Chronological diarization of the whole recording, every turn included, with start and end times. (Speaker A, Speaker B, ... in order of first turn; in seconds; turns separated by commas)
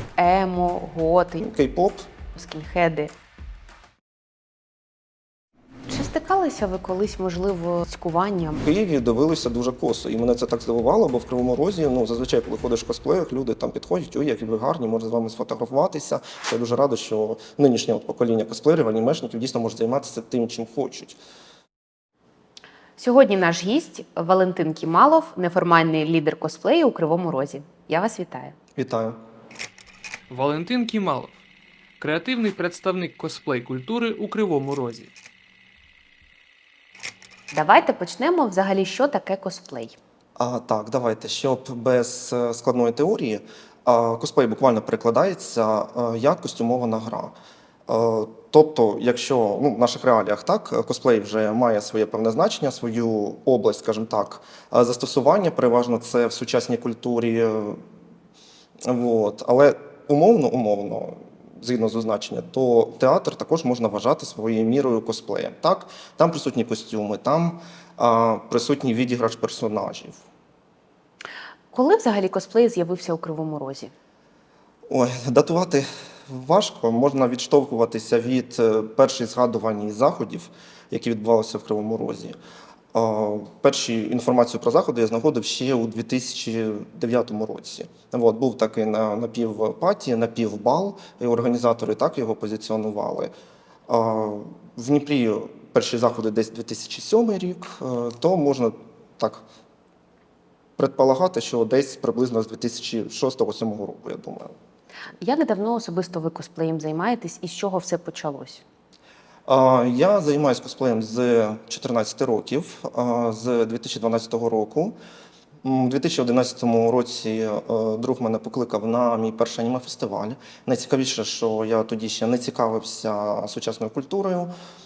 Speaker A: 0.2-1.4, Speaker B: 1.4-2.1, Speaker A: 2.4-3.1, Speaker A: 5.9-8.7, Speaker B: 8.6-21.2, Speaker A: 23.0-28.6, Speaker B: 28.8-29.2, Speaker C: 30.3-31.4, Speaker C: 32.0-35.1, Speaker A: 37.5-40.0, Speaker B: 40.4-47.3, Speaker B: 47.9-57.8, Speaker B: 58.9-70.2, Speaker A: 71.7-73.9, Speaker B: 74.9-82.4, Speaker B: 82.9-93.3, Speaker B: 93.9-99.4, Speaker B: 100.8-104.5, Speaker A: 105.2-108.6, Speaker B: 109.5-114.9, Speaker B: 115.6-124.5